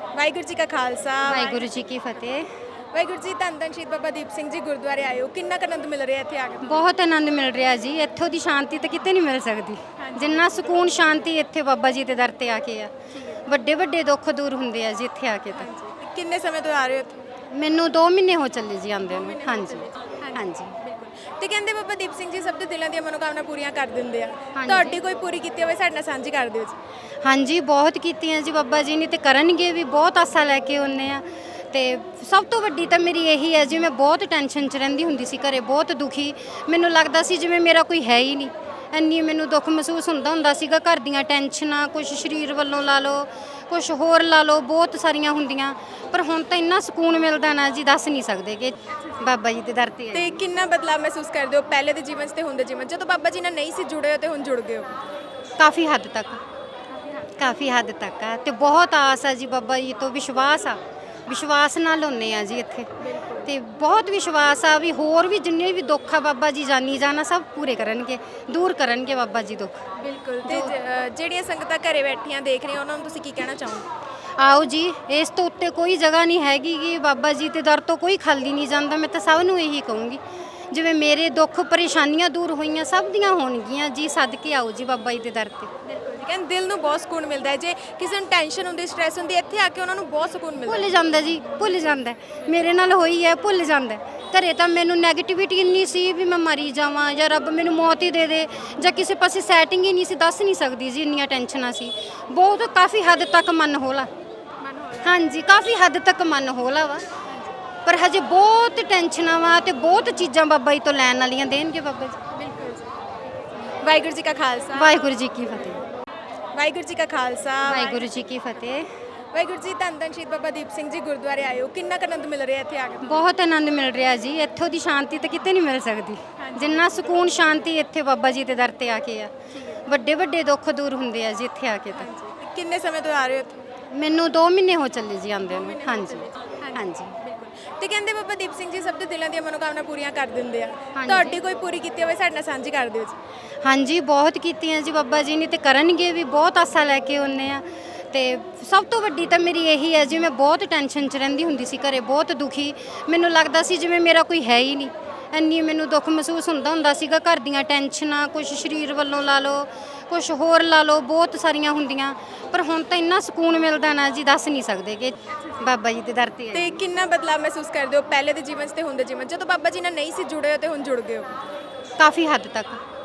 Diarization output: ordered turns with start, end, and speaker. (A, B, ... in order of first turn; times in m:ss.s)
0:00.1-0:01.8 A
0:01.2-0:02.5 B
0:02.9-0:06.9 A
0:06.6-0:12.9 B
0:10.0-0:11.3 A
0:13.1-0:13.4 A
0:13.5-0:15.7 B
0:15.5-0:17.2 A
0:17.5-0:20.8 B
0:19.0-0:26.8 A
0:24.6-0:25.0 B
0:27.2-0:50.4 B
0:50.1-0:55.0 A
0:55.6-0:56.4 B
0:56.9-0:57.3 A
0:57.4-1:02.9 B
1:03.0-1:03.5 A
1:03.5-1:09.8 B
1:10.0-1:13.9 A
1:10.5-1:10.7 B
1:14.4-1:25.7 B
1:25.8-1:31.0 A
1:30.7-1:44.1 B
1:44.6-1:45.2 A
1:45.0-1:47.1 B
1:47.3-1:47.6 A
1:47.8-1:52.2 B
1:52.3-1:55.0 A
1:54.8-1:55.8 B
1:56.5-1:58.1 A
1:57.6-1:58.9 B
1:59.3-2:03.3 A
2:03.0-2:09.3 B
2:06.4-2:07.7 A
2:09.5-2:09.8 A
2:09.9-2:12.1 B
2:11.9-2:13.7 A
2:13.9-2:17.2 B
2:15.4-2:23.2 A
2:21.0-2:21.4 B
2:23.6-2:46.8 B
2:46.5-2:51.4 A
2:52.0-2:52.8 B